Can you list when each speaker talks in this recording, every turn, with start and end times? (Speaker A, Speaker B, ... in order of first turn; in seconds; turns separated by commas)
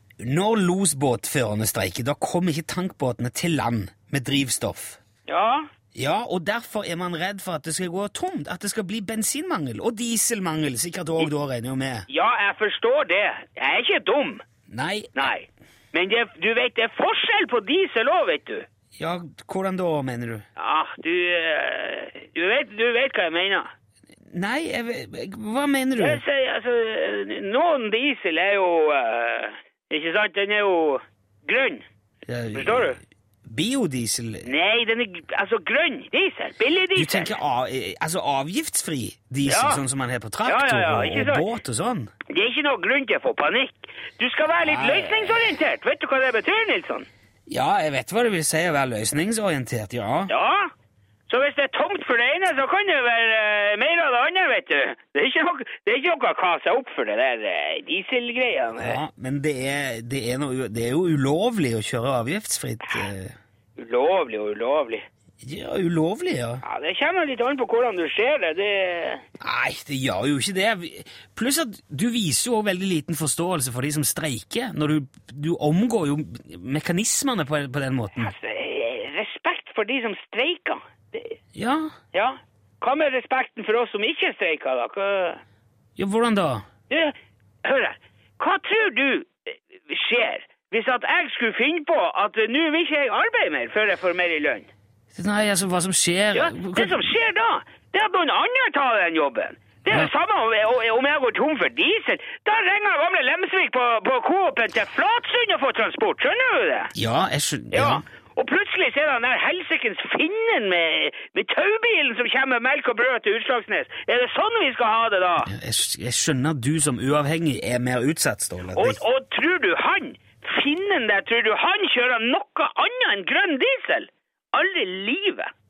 Speaker A: 0.2-5.0, Speaker B: 5.3-5.7, Speaker A: 5.9-12.1, Speaker B: 12.1-14.4, Speaker A: 14.7-15.3, Speaker B: 15.2-18.6, Speaker A: 19.0-20.4, Speaker B: 20.6-23.7, Speaker A: 24.3-26.2, Speaker B: 26.0-31.8, Speaker A: 32.3-34.5, Speaker B: 32.5-33.0, Speaker B: 34.4-37.3, Speaker A: 37.0-42.1, Speaker B: 39.5-39.8, Speaker B: 40.4-41.4, Speaker B: 42.3-47.1, Speaker A: 44.6-45.4, Speaker A: 47.5-50.3, Speaker B: 50.3-50.7, Speaker B: 51.3-59.0, Speaker A: 58.8-63.3, Speaker B: 63.8-65.0, Speaker A: 65.4-66.6, Speaker B: 66.6-69.2, Speaker A: 69.4-78.3, Speaker B: 78.2-81.3, Speaker A: 81.5-81.9, Speaker B: 82.1-85.4, Speaker A: 86.0-86.7, Speaker B: 86.9-89.3, Speaker B: 89.9-94.7, Speaker A: 95.1-97.0, Speaker B: 96.3-106.9, Speaker A: 106.9-108.0, Speaker B: 107.7-115.5, Speaker A: 115.5-119.0, Speaker B: 118.8-125.5